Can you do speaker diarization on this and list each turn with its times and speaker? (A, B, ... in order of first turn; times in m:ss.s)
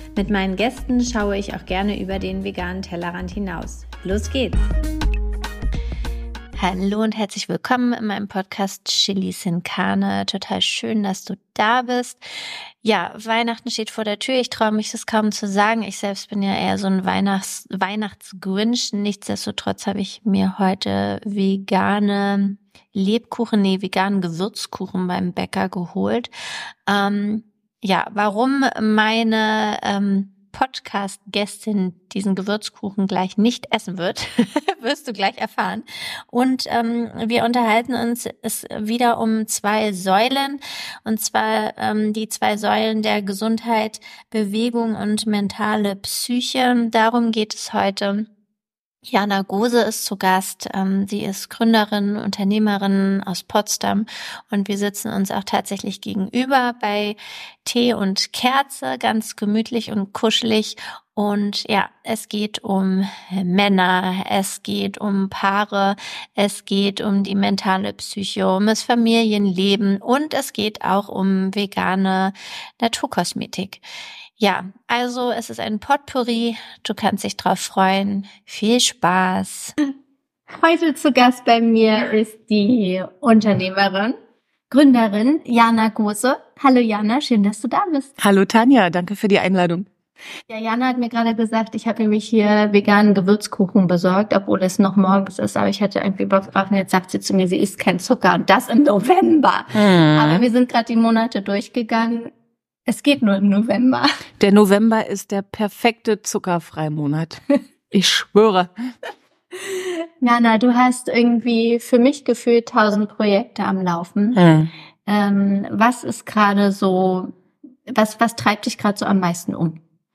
0:00.2-0:04.6 A
0:06.6-0:12.2 A
0:12.8-0:26.3 A
0:26.8-0:48.3 A
0:49.1-1:13.8 A
1:14.4-1:19.7 A
1:20.5-1:24.2 A
1:24.7-1:28.1 A
1:28.2-1:29.9 B
1:30.5-1:42.3 A
1:39.7-1:40.4 B
1:42.8-1:44.2 A
1:44.4-1:48.7 B
1:49.6-1:54.4 A
1:54.3-1:54.7 B
1:55.0-1:57.3 A
1:57.9-1:59.8 A